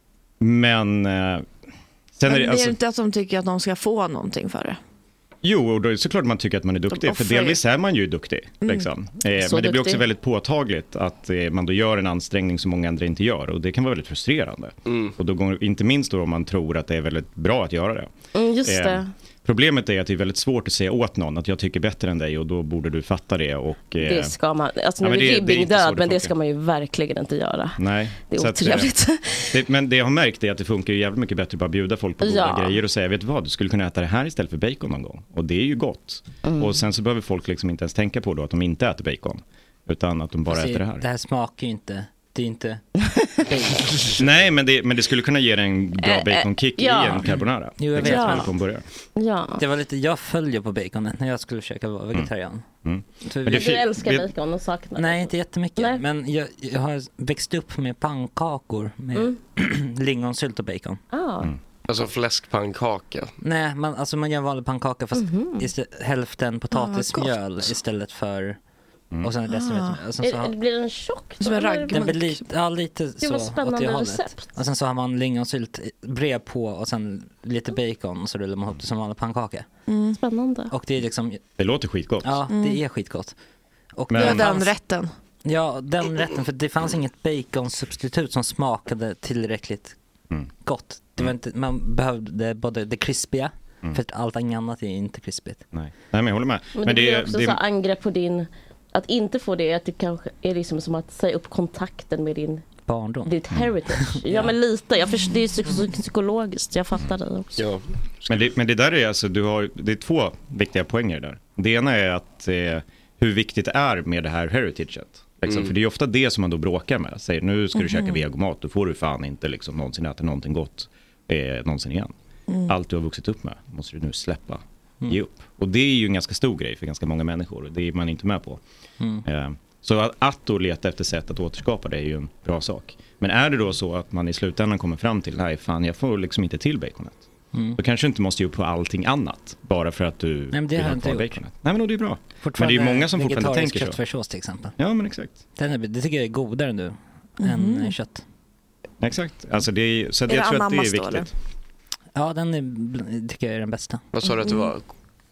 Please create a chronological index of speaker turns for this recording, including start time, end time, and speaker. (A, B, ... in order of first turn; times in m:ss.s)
0:00.4-0:01.5 A
0:02.2-0:02.8 A
0:02.3-0:04.8 B
0:05.4-0:18.1 A
0:06.9-0:07.6 C
0:09.4-0:10.0 C
0:14.9-0:15.2 D
0:18.3-0:19.1 C
0:18.7-0:24.3 A
0:24.0-0:29.6 C
0:25.0-0:26.3 A
0:27.8-0:29.0 A
0:29.5-0:41.0 A
0:32.2-0:32.8 C
0:36.4-0:36.8 C
0:40.5-0:42.8 E
0:43.5-0:44.1 E
0:44.2-0:48.8 A
0:46.0-0:47.4 C
0:47.8-0:48.6 E
0:48.0-0:48.5 C
0:49.2-0:49.6 C
0:49.6-0:52.7 E
0:52.8-0:54.3 A
0:53.2-0:53.8 E
0:53.5-0:56.0 C
0:55.0-1:01.0 E
1:01.1-1:01.5 C
1:01.9-1:03.3 D
1:03.4-1:08.6 E
1:05.1-1:05.7 C
1:06.7-1:07.7 B
1:09.2-1:10.5 E
1:09.5-1:10.0 B
1:10.2-1:12.1 C
1:11.4-1:12.4 B
1:11.9-1:19.7 E
1:13.2-1:14.4 C
1:19.9-1:20.2 B
1:20.2-1:20.7 C
1:20.7-1:21.4 E
1:21.6-1:22.4 A
1:22.2-1:23.3 E
1:22.5-1:22.8 B
1:24.0-1:24.7 E
1:24.1-1:24.6 A
1:24.1-1:25.1 B
1:25.4-1:30.0 E
1:30.6-1:35.6 E
1:35.7-1:37.6 A
1:36.8-1:42.6 C
1:42.9-1:43.3 E
1:43.2-1:47.6 C
1:44.0-1:44.5 E
1:47.6-1:48.5 D
1:48.3-2:02.1 A
1:55.4-1:55.7 D
1:57.8-1:58.1 B
2:02.5-2:02.8 B
2:02.7-2:08.6 A
2:09.2-2:17.2 A
2:17.5-2:17.8 E
2:17.8-2:24.0 A
2:20.5-2:21.4 E
2:22.4-2:24.8 E
2:24.8-2:25.4 A
2:25.6-2:28.2 E
2:27.4-2:27.9 B
2:29.0-2:31.3 A
2:30.3-2:31.3 B
2:32.2-2:34.0 E
2:34.1-2:34.8 D